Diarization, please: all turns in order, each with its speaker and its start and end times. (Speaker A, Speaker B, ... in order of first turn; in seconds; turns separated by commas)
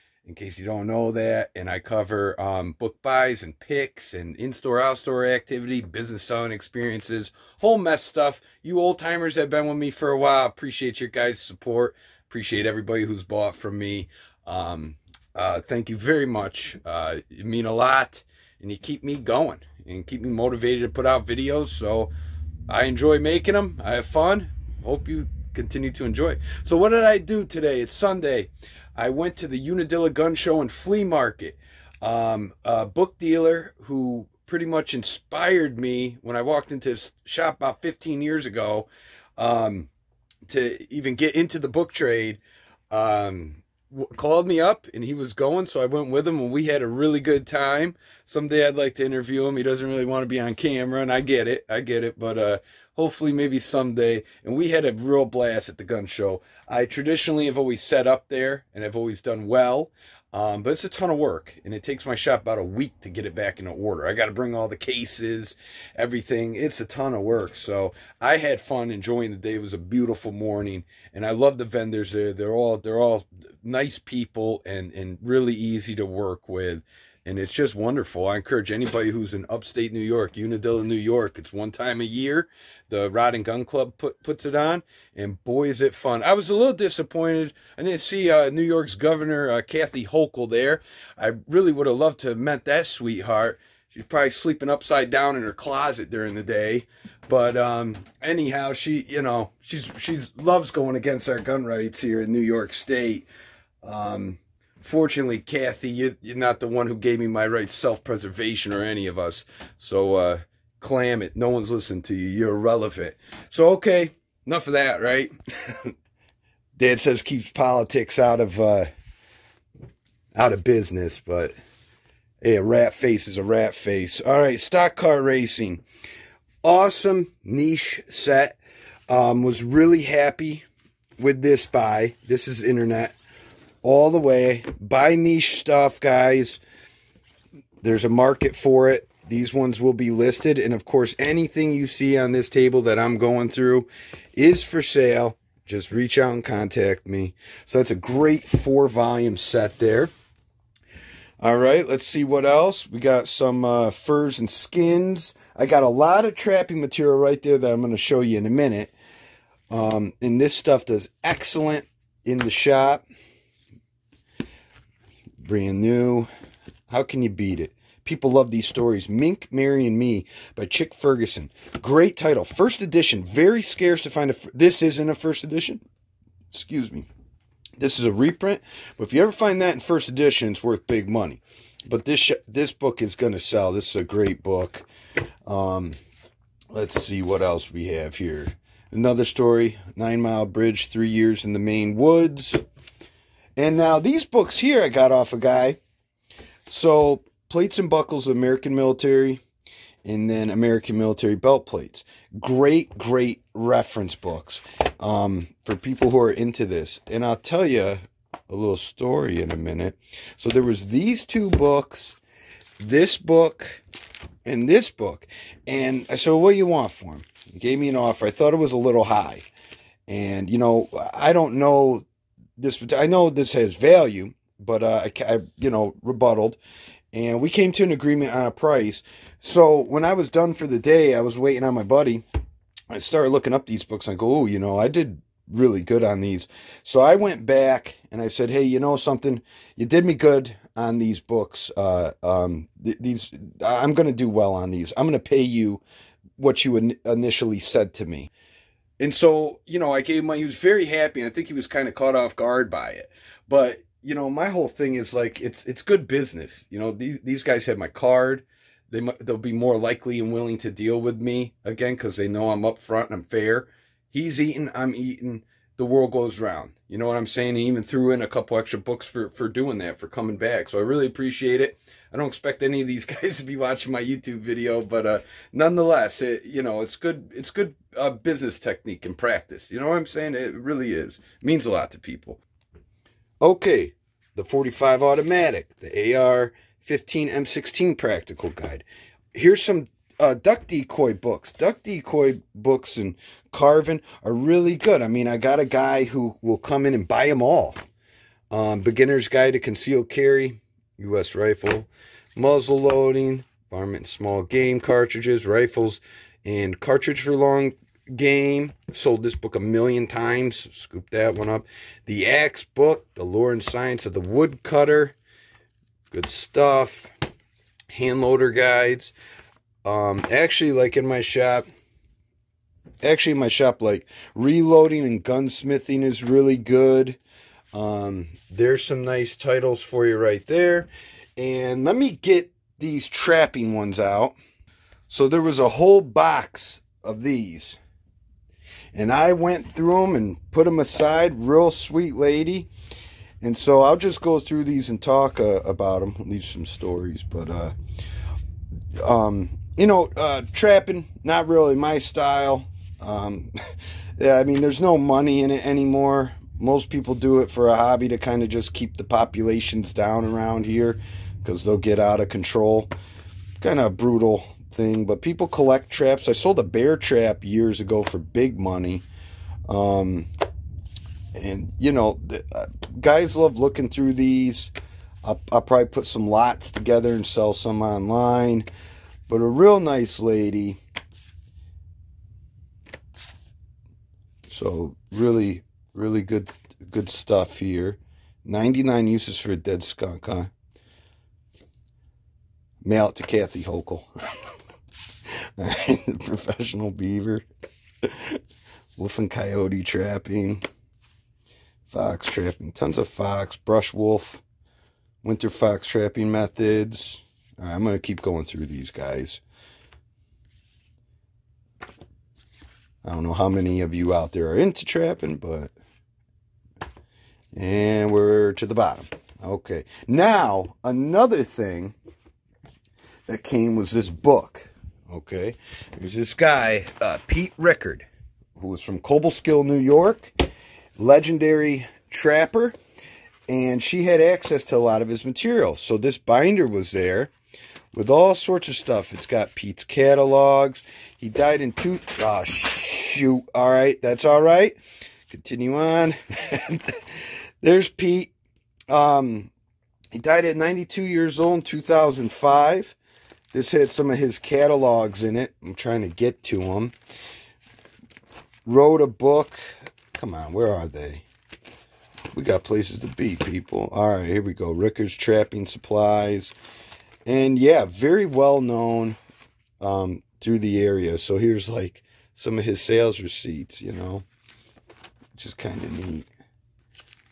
Speaker A: 0.2-22.1, Speaker A: 22.7-39.9, Speaker A: 40.5-42.4, Speaker A: 42.9-103.3, Speaker A: 103.8-115.9, Speaker A: 116.8-118.9, Speaker A: 120.3-121.5, Speaker A: 122.4-125.8, Speaker A: 126.6-128.6, Speaker A: 129.1-130.6, Speaker A: 131.2-133.1, Speaker A: 133.8-136.6, Speaker A: 137.8-150.1, Speaker A: 151.4-158.9, Speaker A: 159.7-163.0, Speaker A: 165.4-166.3, Speaker A: 166.9-175.8, Speaker A: 176.5-177.1, Speaker A: 177.8-184.9, Speaker A: 185.4-186.0, Speaker A: 186.7-192.6, Speaker A: 193.6-195.8, Speaker A: 196.7-199.4, Speaker A: 200.0-212.2, Speaker A: 212.8-213.8, Speaker A: 214.4-219.4, Speaker A: 220.1-222.1, Speaker A: 222.6-226.6, Speaker A: 227.1-232.2, Speaker A: 232.9-245.8, Speaker A: 246.4-248.3, Speaker A: 249.0-282.4, Speaker A: 283.4-297.8, Speaker A: 298.5-315.1, Speaker A: 316.1-317.1, Speaker A: 317.9-319.1, Speaker A: 319.8-321.6, Speaker A: 323.0-327.2, Speaker A: 327.7-334.4, Speaker A: 335.1-337.8, Speaker A: 338.9-342.7, Speaker A: 343.4-347.7, Speaker A: 349.0-353.5, Speaker A: 354.2-362.9, Speaker A: 363.6-369.0, Speaker A: 369.7-370.3, Speaker A: 371.3-374.7, Speaker A: 375.2-378.7, Speaker A: 379.3-380.8, Speaker A: 384.5-390.5, Speaker A: 392.8-394.1, Speaker A: 395.6-397.4, Speaker A: 398.0-398.4, Speaker A: 399.0-400.6, Speaker A: 401.9-404.4, Speaker A: 405.2-409.4, Speaker A: 413.0-415.7, Speaker A: 417.5-421.9, Speaker A: 423.3-430.3, Speaker A: 431.0-432.8, Speaker A: 433.5-437.3, Speaker A: 437.9-444.8, Speaker A: 445.3-447.0, Speaker A: 447.6-448.3, Speaker A: 448.9-449.5, Speaker A: 450.1-452.9, Speaker A: 453.5-456.9, Speaker A: 458.6-459.6, Speaker A: 460.1-461.2, Speaker A: 462.3-466.5, Speaker A: 467.2-469.2, Speaker A: 469.8-474.3, Speaker A: 475.3-476.3